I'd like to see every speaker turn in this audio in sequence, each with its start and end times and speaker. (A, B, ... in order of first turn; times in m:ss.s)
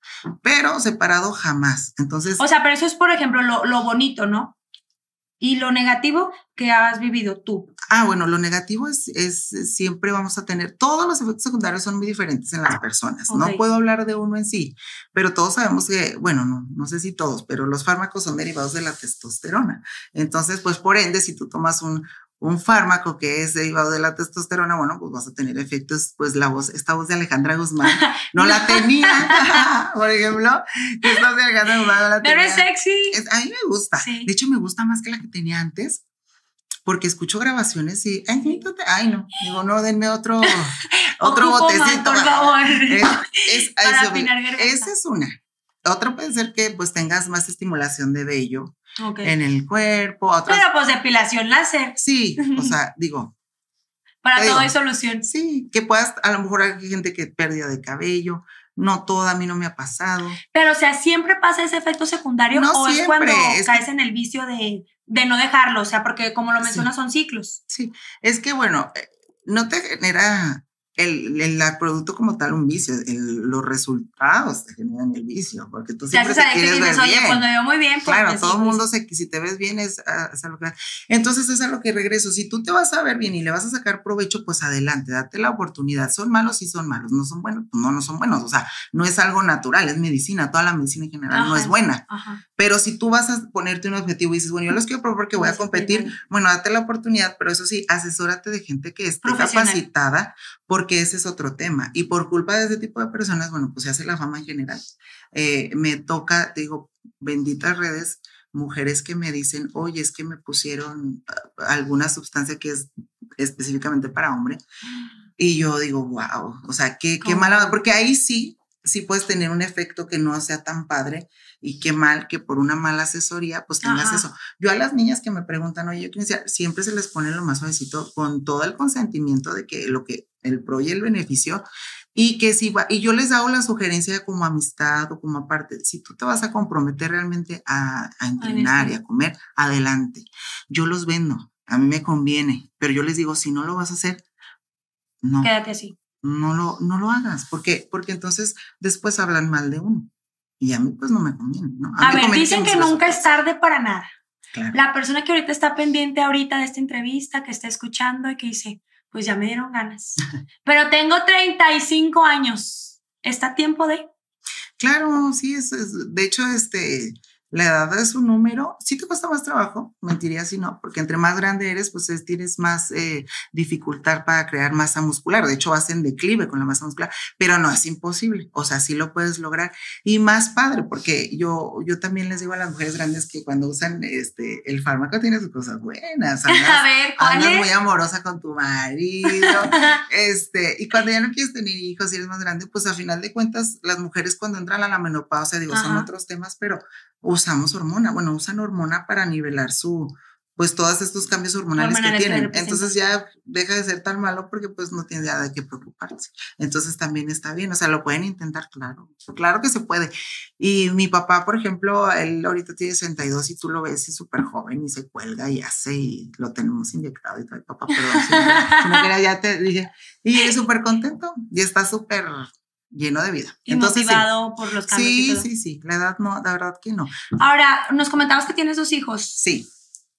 0:00.4-0:02.4 A
0:02.4-0:04.5 B
0:05.4-0:07.7 B
0:07.9-0:36.0 A
0:13.3-0:13.6 B
0:27.9-0:29.6 B
0:32.2-0:33.2 B
0:34.0-0:34.3 B
0:36.8-0:50.6 A
0:40.4-0:44.9 B
0:49.0-0:49.3 B
0:50.5-0:52.7 B
0:52.0-0:53.3 A
0:54.2-0:55.2 B
0:54.3-0:54.7 A
0:55.2-1:00.4 A
1:00.5-1:07.6 B
1:02.5-1:03.8 A
1:06.6-1:06.9 A
1:07.7-1:17.4 A
1:16.1-1:18.9 B
1:18.0-1:32.0 A
1:31.3-1:32.4 B
1:32.6-1:54.6 A
1:35.4-1:36.2 B
1:39.2-1:39.8 B
1:55.4-2:11.6 A
1:57.2-1:57.8 B
2:03.8-2:04.2 B
2:12.1-2:24.2 A
2:18.4-2:19.0 B
2:25.2-2:25.5 A
2:25.4-2:26.0 B
2:26.2-2:33.2 A
2:32.0-2:34.1 B
2:34.5-2:34.8 A
2:34.7-2:44.0 B
2:44.8-3:44.3 A
3:06.5-3:07.7 B
3:09.3-3:10.0 B
3:15.7-3:16.1 B
3:21.8-3:22.9 B
3:38.2-3:39.0 B
3:43.7-3:45.5 B
3:44.9-3:47.2 A
3:47.3-3:49.4 B
3:49.4-3:49.7 A